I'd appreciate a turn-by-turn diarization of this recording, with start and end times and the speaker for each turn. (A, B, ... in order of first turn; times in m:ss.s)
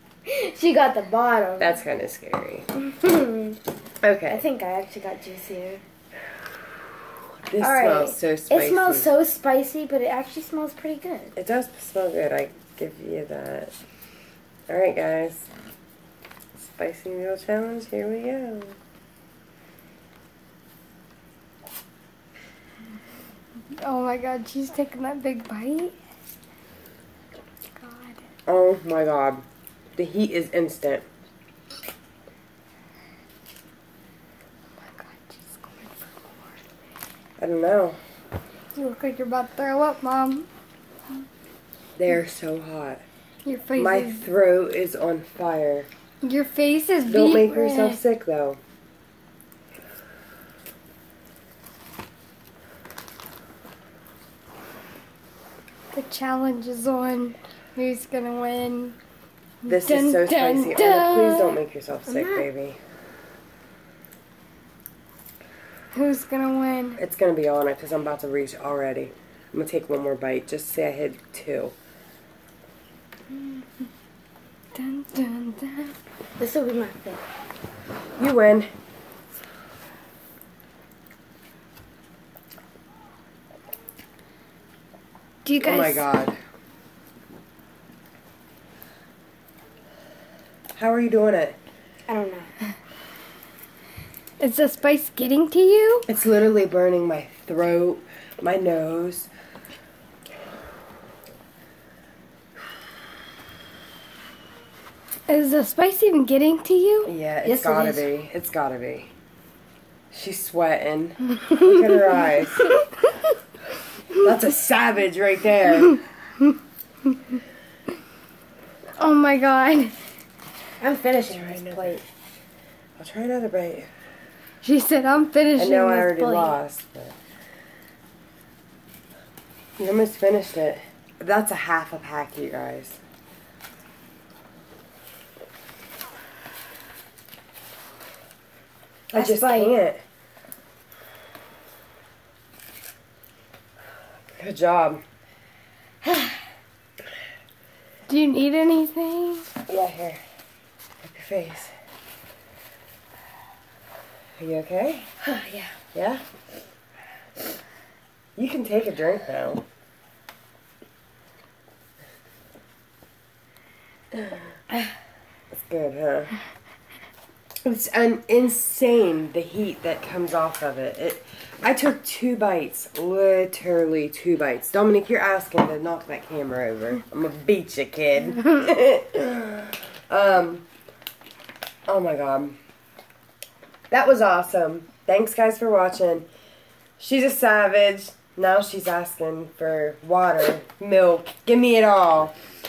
0:00.3-0:01.8 A
0:01.6-0:02.7 B
0:02.8-0:03.6 A
0:04.0-0:04.4 B
0:04.3-0:05.8 A
0:07.4-0:09.1 B
0:07.6-0:11.3 A
0:11.4-0:13.7 B
0:14.7-0:15.5 B
0:16.6-0:18.8 B
0:23.7-0:25.9 C
0:27.8-0:28.2 C
0:28.5-0:29.4 B
0:30.0-0:31.1 B
0:34.8-0:36.5 C
0:37.4-0:38.0 B
0:38.7-0:40.5 C
0:42.0-0:43.0 B
0:43.4-0:44.2 C
0:43.8-0:45.9 B
0:46.2-0:48.0 C
0:47.0-0:48.6 B
0:55.9-0:59.0 C
0:59.6-1:01.6 C
0:59.6-1:02.8 B
1:02.1-1:02.4 A
1:05.9-1:07.0 C
1:07.0-1:11.7 B
1:13.3-1:13.6 C
1:14.7-1:15.9 C
1:16.4-1:17.2 A
1:18.2-1:18.7 B
1:25.4-1:26.1 C
1:25.6-1:26.4 B
1:30.7-1:31.6 B
1:32.1-1:32.5 A
1:34.4-1:36.1 C
1:36.1-1:39.3 B
1:45.3-1:47.1 C
1:47.0-1:49.1 B
1:47.4-1:48.0 A
1:50.1-1:52.7 B
1:54.1-1:56.0 B
1:59.0-2:00.0 C
2:00.8-2:02.0 A
2:01.3-2:02.0 B
2:03.0-2:03.9 B
2:04.6-2:06.2 C
2:05.6-2:07.2 B
2:05.9-2:06.6 A
2:09.8-2:13.0 B
2:19.1-2:20.0 B
2:19.1-2:19.7 A
2:24.3-2:25.0 B
2:28.1-2:29.5 C
2:29.7-2:30.2 B
2:31.0-2:31.7 B
2:34.4-2:35.1 B
2:35.2-2:35.8 A
2:35.9-2:36.2 B
2:38.4-2:39.6 B
2:45.5-2:46.3 B
2:47.6-3:00.6 B
3:01.9-3:02.6 B
3:03.9-3:06.2 B
3:07.0-3:12.4 B